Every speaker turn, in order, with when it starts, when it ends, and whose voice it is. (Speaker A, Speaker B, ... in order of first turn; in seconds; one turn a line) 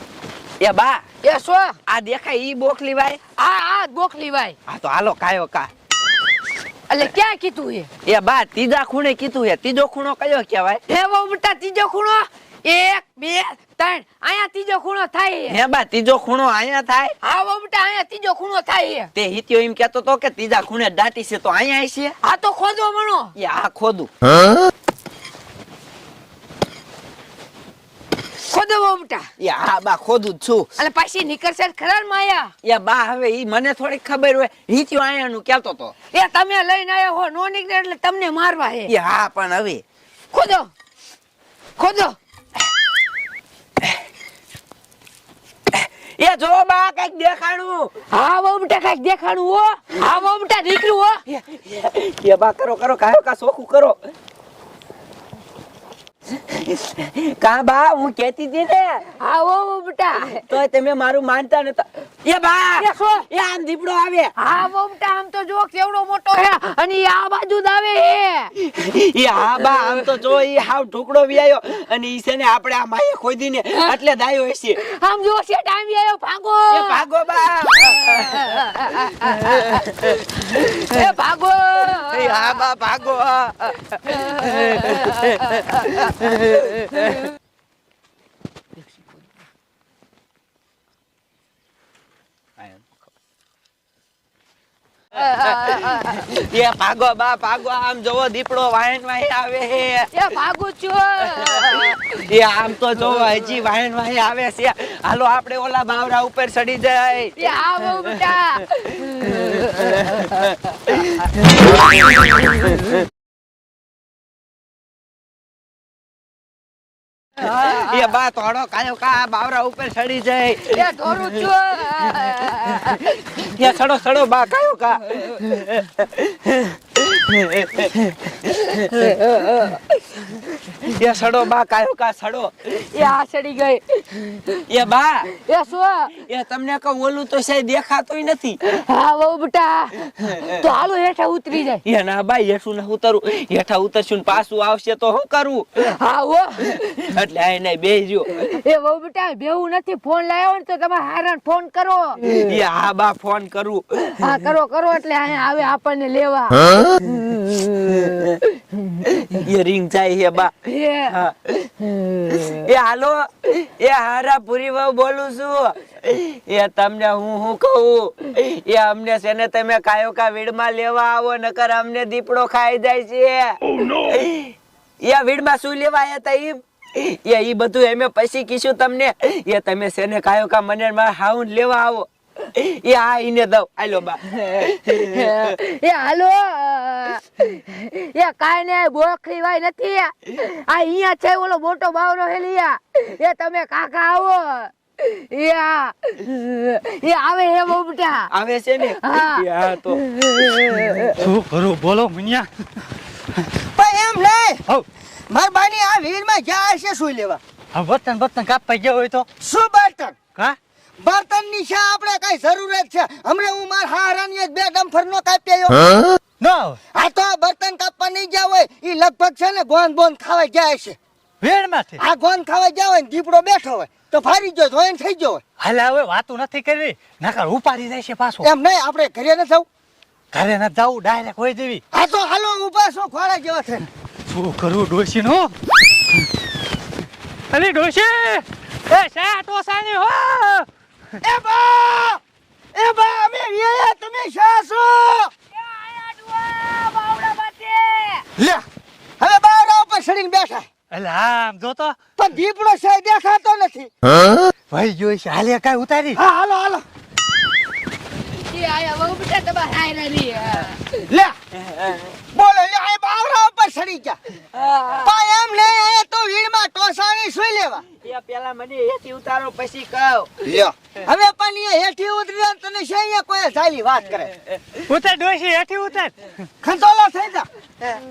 Speaker A: 0.6-1.1
Speaker B: 1.2-1.8
Speaker A: 1.9-3.2
Speaker B: 3.4-4.6
Speaker A: 4.7-5.7
Speaker B: 6.9-7.9
Speaker A: 8.1-10.8
Speaker B: 10.9-15.6
Speaker A: 15.5-17.1
Speaker B: 17.2-19.1
Speaker A: 19.1-22.2
Speaker B: 22.2-23.3
Speaker A: 23.4-24.1
Speaker B: 28.4-29.3
Speaker A: 29.4-30.7
Speaker B: 30.8-32.5
Speaker A: 32.6-35.9
Speaker B: 36.1-38.9
Speaker A: 38.9-39.8
Speaker B: 40.3-40.7
Speaker B: 41.8-42.2
Speaker A: 45.7-47.9
Speaker B: 48.1-51.2
Speaker A: 51.3-54.0
Speaker A: 56.5-59.0
Speaker B: 59.2-60.4
Speaker A: 60.2-64.3
Speaker B: 62.8-63.2
Speaker B: 64.4-68.5
Speaker A: 68.6-74.8
Speaker B: 74.8-77.0
Speaker A: 76.7-80.2
Speaker B: 77.8-82.6
Speaker A: 82.1-87.2
Speaker B: 84.1-86.1
Speaker A: 92.6-92.9
Speaker B: 95.1-96.2
Speaker A: 95.4-100.1
Speaker B: 100.1-102.2
Speaker A: 101.5-108.2
Speaker B: 107.4-110.3
Speaker A: 109.3-112.6
Speaker A: 117.4-121.5
Speaker B: 120.7-123.2
Speaker A: 123.4-129.2
Speaker B: 128.9-129.8
Speaker A: 130.8-132.8
Speaker B: 132.9-134.4
Speaker A: 134.7-135.3
Speaker B: 135.3-136.1
Speaker A: 136.2-138.6
Speaker B: 138.6-141.8
Speaker A: 141.8-145.9
Speaker B: 145.9-146.8
Speaker A: 146.7-148.5
Speaker B: 148.5-152.2
Speaker A: 152.2-154.3
Speaker B: 154.2-156.7
Speaker A: 157.2-157.9
Speaker A: 159.0-160.5
Speaker B: 160.6-161.1
Speaker A: 161.1-161.7
Speaker B: 162.1-162.5
Speaker A: 162.3-185.5
Speaker B: 184.9-198.3
Speaker A: 198.3-201.1
Speaker B: 199.0-201.1
Speaker C: 201.2-202.5
Speaker D: 203.8-204.6
Speaker D: 205.3-207.4
Speaker C: 207.7-209.3
Speaker D: 209.4-210.2
Speaker D: 211.0-216.0
Speaker C: 216.4-216.8
Speaker D: 216.9-221.0
Speaker C: 221.4-222.0
Speaker D: 222.0-225.4
Speaker C: 225.6-228.5
Speaker D: 228.4-229.7
Speaker C: 230.3-231.8
Speaker D: 231.9-233.9
Speaker C: 234.3-235.5
Speaker C: 237.5-240.7
Speaker D: 241.2-242.2
Speaker D: 242.7-245.3
Speaker B: 245.6-248.2
Speaker D: 249.2-250.7
Speaker C: 250.9-252.0
Speaker D: 252.2-253.9
Speaker C: 254.7-256.2
Speaker D: 256.2-256.8
Speaker B: 258.4-260.8
Speaker D: 261.1-261.4
Speaker A: 261.6-262.1
Speaker D: 262.3-264.2
Speaker D: 265.0-267.9
Speaker A: 268.0-270.5
Speaker D: 270.4-274.3
Speaker C: 274.9-276.3
Speaker D: 276.6-277.5